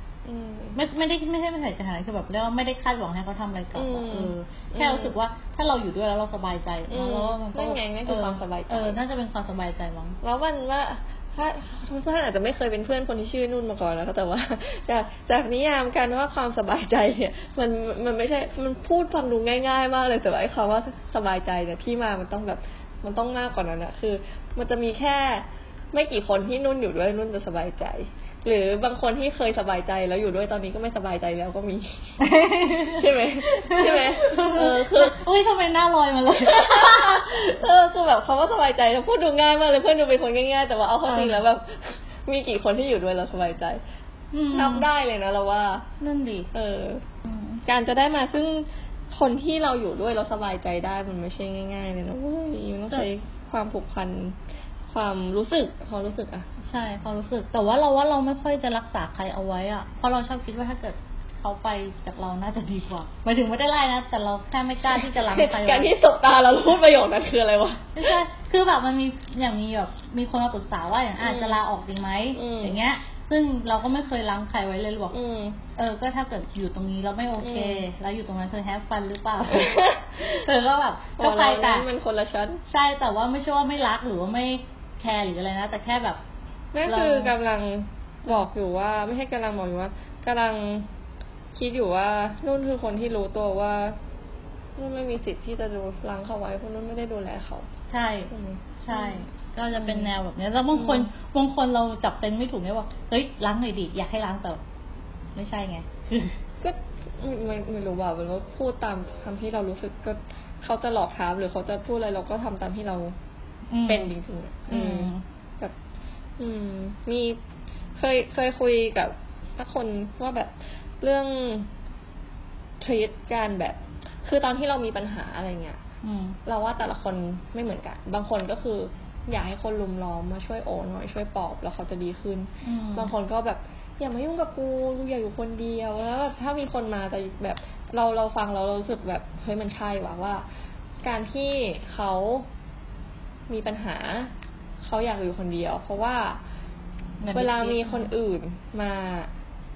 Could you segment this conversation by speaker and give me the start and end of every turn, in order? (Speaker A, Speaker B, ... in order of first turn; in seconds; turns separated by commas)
Speaker A: 0.2-0.8, Speaker B: 0.7-10.2, Speaker A: 3.7-5.1, Speaker A: 6.9-9.0, Speaker A: 10.2-32.1, Speaker B: 32.2-37.6, Speaker A: 33.0-35.2, Speaker A: 36.4-43.8, Speaker B: 41.0-41.4, Speaker B: 44.3-44.9, Speaker A: 44.5-45.9, Speaker B: 46.0-46.5, Speaker A: 46.5-47.0, Speaker B: 47.2-47.6, Speaker A: 47.7-54.4, Speaker A: 54.9-56.5, Speaker B: 56.6-65.9, Speaker A: 65.0-68.1, Speaker B: 67.9-75.2, Speaker A: 71.2-71.6, Speaker A: 72.3-72.8, Speaker A: 75.1-75.6, Speaker B: 75.8-81.9, Speaker A: 77.4-77.8, Speaker A: 79.5-80.4, Speaker A: 81.2-82.6, Speaker B: 82.7-86.2, Speaker A: 86.7-90.9, Speaker B: 86.8-87.3, Speaker A: 91.5-94.0, Speaker A: 94.8-97.7, Speaker B: 97.9-104.6, Speaker A: 98.3-100.1, Speaker A: 100.7-101.1, Speaker B: 105.3-106.4, Speaker A: 106.6-113.2, Speaker B: 113.7-114.1, Speaker A: 113.9-115.7, Speaker B: 114.7-115.2, Speaker A: 116.4-117.4, Speaker A: 118.0-121.7, Speaker A: 122.8-125.8, Speaker B: 126.0-126.4, Speaker A: 126.5-140.4, Speaker B: 132.6-133.1, Speaker A: 141.0-142.5, Speaker A: 143.5-144.3, Speaker A: 144.8-146.4, Speaker B: 147.2-148.1, Speaker A: 147.3-149.3